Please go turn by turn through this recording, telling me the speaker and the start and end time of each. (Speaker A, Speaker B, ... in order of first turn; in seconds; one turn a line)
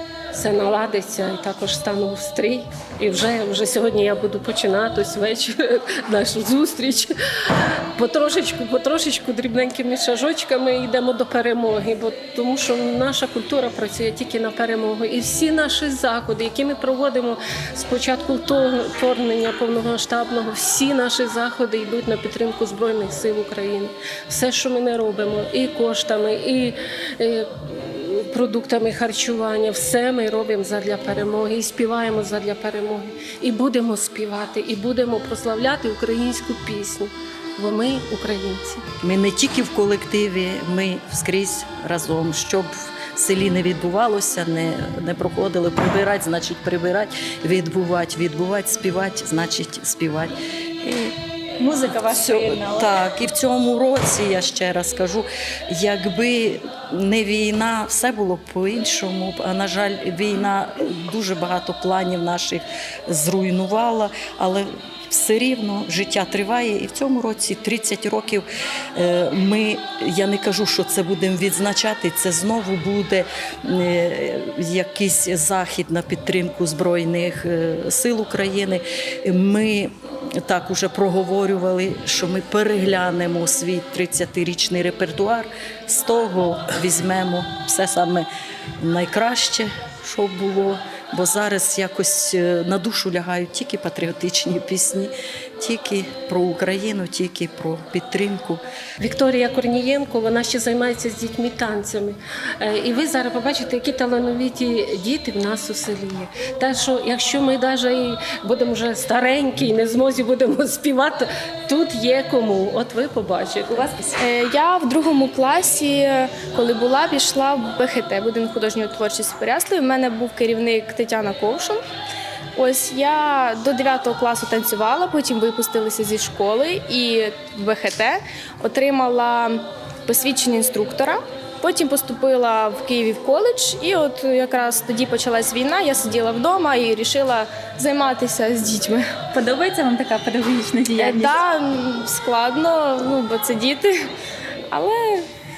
Speaker A: 0.3-38.8
Speaker B: 39.0-51.1
Speaker C: 51.6-52.9
Speaker B: 51.9-88.3
Speaker B: 88.8-98.6
Speaker A: 99.0-113.8
Speaker C: 113.7-114.2
Speaker D: 114.2-121.8
Speaker D: 122.5-139.2
Speaker C: 139.3-141.4
Speaker D: 140.9-144.1
Speaker D: 144.7-145.3